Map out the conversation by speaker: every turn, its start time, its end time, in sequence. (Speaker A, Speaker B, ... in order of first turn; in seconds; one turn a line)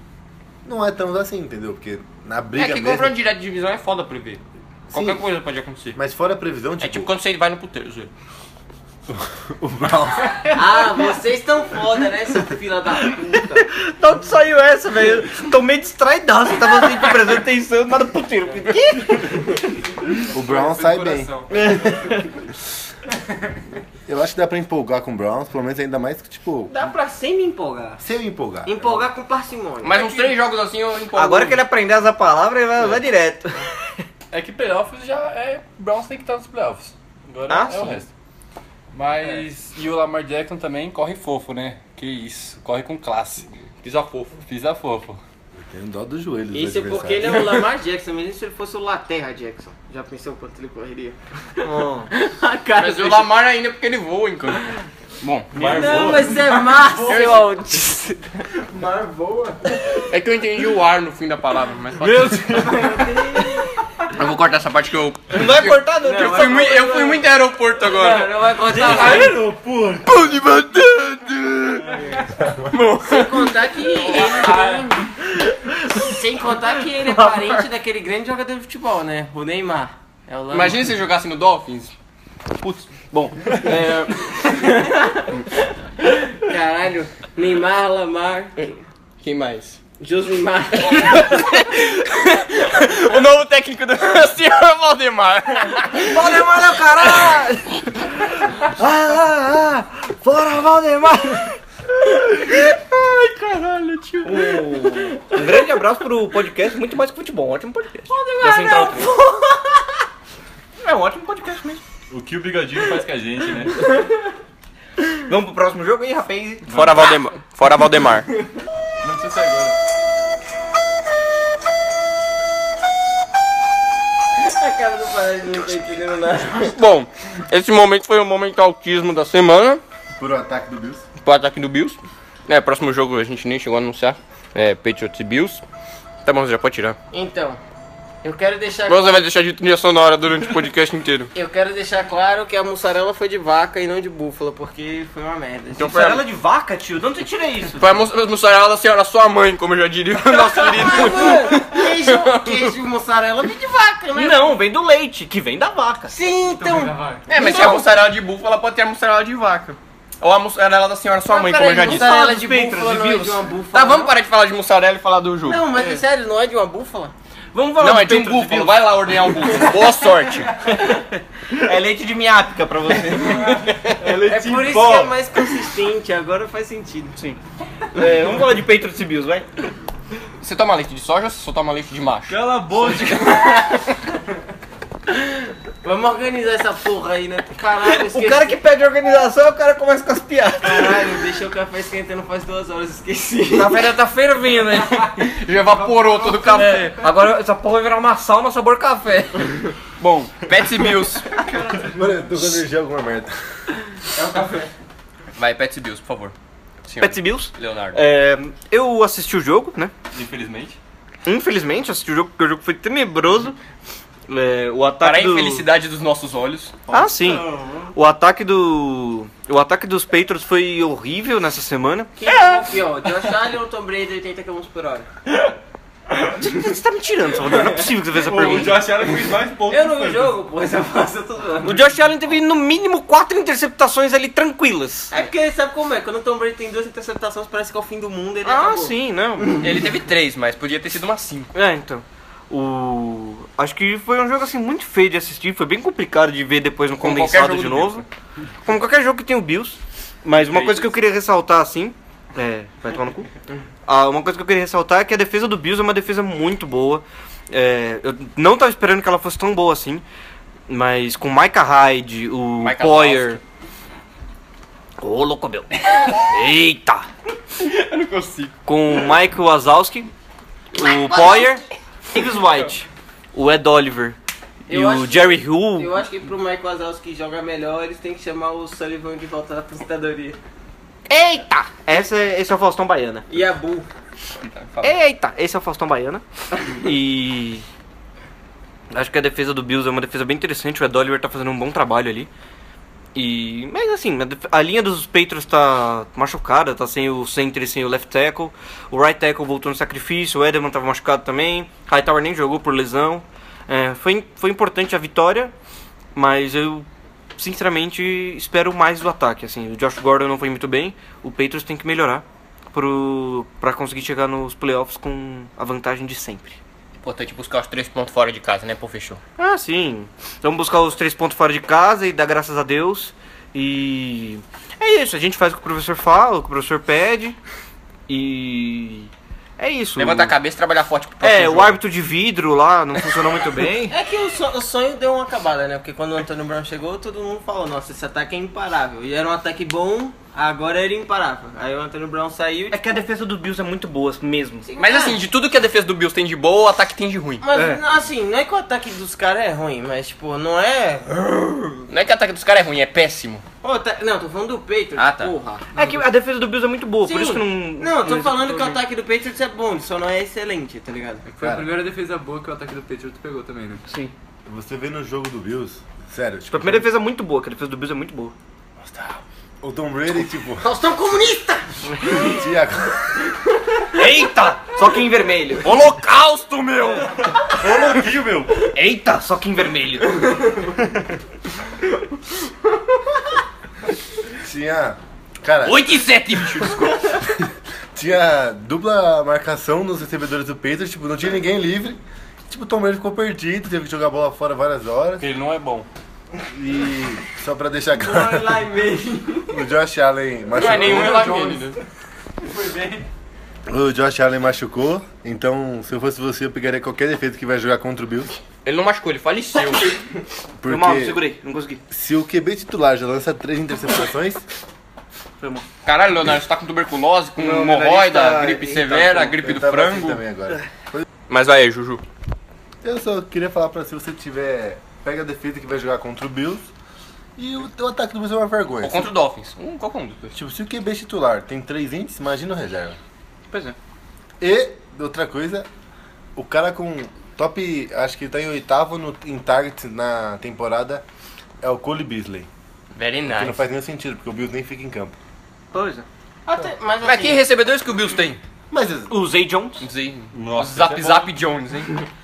Speaker A: 0.7-3.1
Speaker B: 2.5-6.0
Speaker A: 5.9-7.1
Speaker B: 6.8-8.1
Speaker A: 9.1-10.6
Speaker C: 10.5-13.6
Speaker D: 13.4-19.5
Speaker A: 20.3-21.3
Speaker E: 20.3-21.5
Speaker D: 21.5-22.2
Speaker A: 24.1-26.7
Speaker C: 26.7-28.0
Speaker A: 28.0-29.1
Speaker C: 28.6-30.4
Speaker B: 29.8-31.6
Speaker D: 31.1-33.7
Speaker F: 34.3-38.1
Speaker D: 37.5-38.0
Speaker F: 38.9-43.5
Speaker B: 43.8-44.4
Speaker F: 44.4-45.2
Speaker A: 45.5-47.6
Speaker C: 46.5-53.3
Speaker D: 51.6-52.1
Speaker B: 52.8-54.7
Speaker B: 55.2-56.0
Speaker F: 55.5-56.7
Speaker C: 55.6-58.4
Speaker E: 56.8-57.4
Speaker B: 57.0-57.5
Speaker E: 58.8-59.5
Speaker B: 59.9-62.3
Speaker F: 62.0-63.5
Speaker C: 62.5-63.8
Speaker B: 64.1-68.4
Speaker D: 65.3-66.9
Speaker C: 66.0-67.3
Speaker C: 67.8-69.4
Speaker F: 68.7-70.4
Speaker B: 70.0-72.0
Speaker C: 71.9-72.2
Speaker F: 72.0-72.6
Speaker B: 72.7-73.5
Speaker C: 73.0-80.9
Speaker F: 74.2-74.9
Speaker B: 80.5-81.9
Speaker B: 82.6-84.7
Speaker C: 84.4-88.8
Speaker B: 89.2-89.8
Speaker C: 90.0-91.6
Speaker B: 91.0-96.3
Speaker D: 96.0-97.6
Speaker C: 96.1-97.4
Speaker B: 97.1-97.4
Speaker D: 98.6-101.6
Speaker B: 103.5-104.3
Speaker D: 104.2-109.1
Speaker C: 108.1-109.8
Speaker B: 108.5-109.0
Speaker D: 110.8-111.8
Speaker F: 112.1-113.9
Speaker D: 115.2-116.8
Speaker B: 116.7-118.3
Speaker F: 119.0-119.8
Speaker C: 124.4-126.8
Speaker B: 126.6-129.8
Speaker A: 130.2-131.1
Speaker B: 131.2-135.6
Speaker B: 136.2-137.0
Speaker C: 137.1-137.6
Speaker C: 138.2-139.2
Speaker B: 138.9-141.3
Speaker C: 141.3-146.0
Speaker B: 145.8-146.2
Speaker D: 145.9-148.0
Speaker B: 147.8-152.7
Speaker D: 150.4-151.2
Speaker C: 150.6-154.6
Speaker D: 154.1-156.2
Speaker C: 156.1-157.8
Speaker E: 156.5-157.3
Speaker B: 157.3-162.3
Speaker D: 157.4-157.8
Speaker C: 161.3-164.1
Speaker D: 161.6-163.4
Speaker B: 163.7-165.7
Speaker C: 165.4-167.1
Speaker D: 167.5-168.8
Speaker B: 167.8-170.5
Speaker D: 170.6-173.9
Speaker F: 173.9-175.1
Speaker C: 174.1-177.2
Speaker D: 177.9-179.5
Speaker B: 180.4-182.4
Speaker F: 182.3-183.6
Speaker C: 183.0-183.8
Speaker C: 185.8-188.6
Speaker D: 187.8-191.1
Speaker C: 190.6-193.8
Speaker D: 193.6-195.0
Speaker B: 194.6-197.1
Speaker D: 196.4-199.5
Speaker B: 200.0-201.3
Speaker A: 201.8-203.3
Speaker C: 204.2-204.7
Speaker B: 205.3-206.3
Speaker B: 206.8-208.0
Speaker D: 207.0-209.9
Speaker B: 210.1-210.8
Speaker F: 210.3-210.8
Speaker D: 211.2-213.6
Speaker D: 214.3-215.7
Speaker B: 215.0-216.9
Speaker D: 216.9-222.7
Speaker C: 222.2-225.1
Speaker D: 226.3-228.8
Speaker F: 228.2-230.3
Speaker C: 229.7-231.8
Speaker D: 231.6-235.2
Speaker C: 235.1-238.9
Speaker D: 238.4-239.7
Speaker B: 239.6-241.5
Speaker D: 241.5-248.1
Speaker B: 247.0-248.1
Speaker D: 248.7-253.3
Speaker B: 250.4-250.9
Speaker D: 253.9-260.0
Speaker D: 260.7-263.4
Speaker B: 262.6-263.4
Speaker D: 265.0-267.1
Speaker B: 267.6-268.5
Speaker D: 268.7-270.1
Speaker D: 270.7-274.2
Speaker D: 274.7-276.0
Speaker C: 274.7-280.4
Speaker D: 281.1-283.3
Speaker C: 283.3-283.9
Speaker B: 284.5-285.0
Speaker D: 284.8-287.7
Speaker D: 288.9-292.3
Speaker D: 293.1-305.5
Speaker D: 306.1-316.6
Speaker B: 317.0-319.2
Speaker D: 319.4-327.4
Speaker D: 328.1-330.4
Speaker B: 330.0-331.8
Speaker D: 331.2-333.9
Speaker C: 333.9-342.9
Speaker D: 342.7-344.7
Speaker C: 344.6-345.2
Speaker B: 344.8-347.4
Speaker C: 347.4-351.9
Speaker D: 347.5-347.8
Speaker B: 351.9-353.4
Speaker C: 353.6-355.8
Speaker B: 355.0-355.3
Speaker D: 355.7-358.8
Speaker C: 357.1-361.2
Speaker E: 361.3-363.8
Speaker A: 361.4-361.7
Speaker D: 363.9-364.1
Speaker A: 364.5-366.9
Speaker D: 366.5-368.3
Speaker A: 368.8-370.7
Speaker C: 370.6-372.4
Speaker A: 372.1-373.1
Speaker D: 373.9-377.1
Speaker F: 377.5-378.5
Speaker D: 378.6-380.3
Speaker A: 384.4-385.9
Speaker B: 385.6-387.0
Speaker A: 387.9-395.3
Speaker F: 395.2-395.9
Speaker A: 396.5-398.7
Speaker C: 398.0-399.6
Speaker A: 399.5-401.2
Speaker B: 400.6-401.8
Speaker E: 400.6-401.8
Speaker E: 402.4-403.1
Speaker A: 403.7-408.3
Speaker B: 408.6-410.0
Speaker A: 410.6-411.2
Speaker D: 410.6-411.8
Speaker A: 411.9-414.4
Speaker D: 415.4-415.7
Speaker B: 415.8-420.2
Speaker D: 417.4-419.3
Speaker A: 419.3-421.1
Speaker B: 421.3-422.0
Speaker A: 422.8-426.7
Speaker A: 427.4-429.1
Speaker B: 428.8-430.3
Speaker A: 430.3-433.0
Speaker D: 433.5-433.8
Speaker A: 434.4-435.7
Speaker A: 436.4-441.0
Speaker A: 441.6-442.5
Speaker B: 442.9-443.6
Speaker A: 443.3-445.2
Speaker D: 445.7-446.1
Speaker C: 446.5-447.4
Speaker B: 447.0-448.4
Speaker A: 448.7-449.1
Speaker D: 449.1-449.9
Speaker B: 449.8-451.9
Speaker F: 450.3-451.3